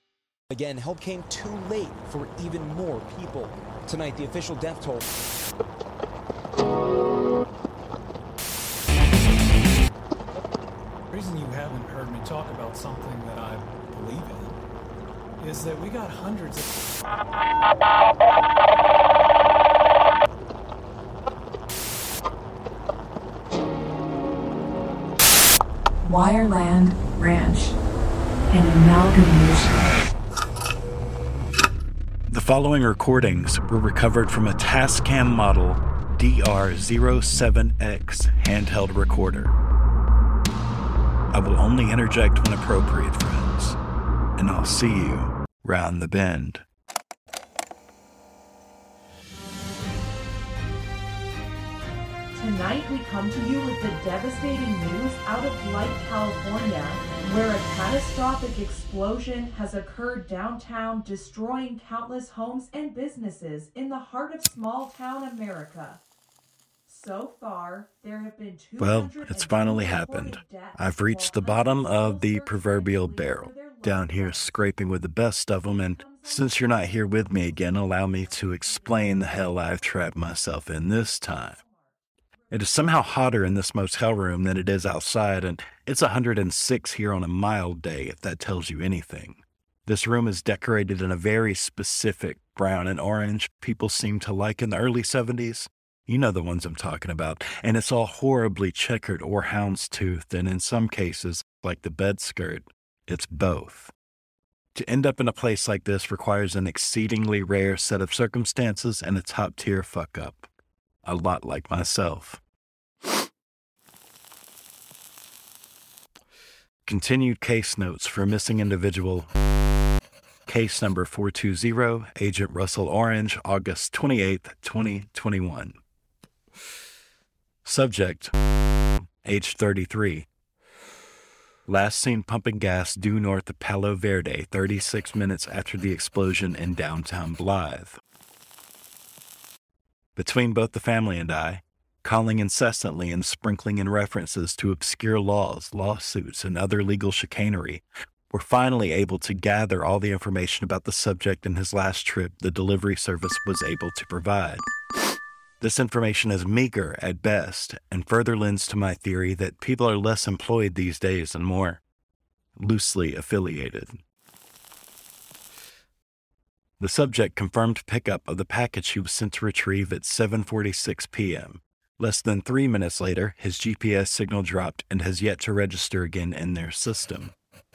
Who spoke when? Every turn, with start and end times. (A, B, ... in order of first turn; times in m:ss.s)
0:00.5-0:05.0 A
0:11.1-0:14.6 B
0:15.4-0:16.9 B
0:26.0-0:27.8 C
0:28.5-0:29.8 C
0:32.3-0:39.6 D
0:41.3-0:43.8 D
0:44.4-0:46.6 D
0:52.3-1:06.0 E
1:06.9-1:14.7 E
1:08.8-1:21.6 D
1:15.9-1:19.7 E
1:21.3-1:21.9 E
1:22.5-1:43.9 D
1:44.8-1:50.5 D
1:51.0-1:52.4 D
1:56.9-1:59.3 D
2:00.5-2:05.8 D
2:07.6-2:08.3 D
2:09.2-2:10.3 D
2:11.7-2:18.0 D
2:20.2-2:34.7 D
2:35.6-2:41.8 D
2:42.6-2:44.0 D
2:46.8-2:57.4 D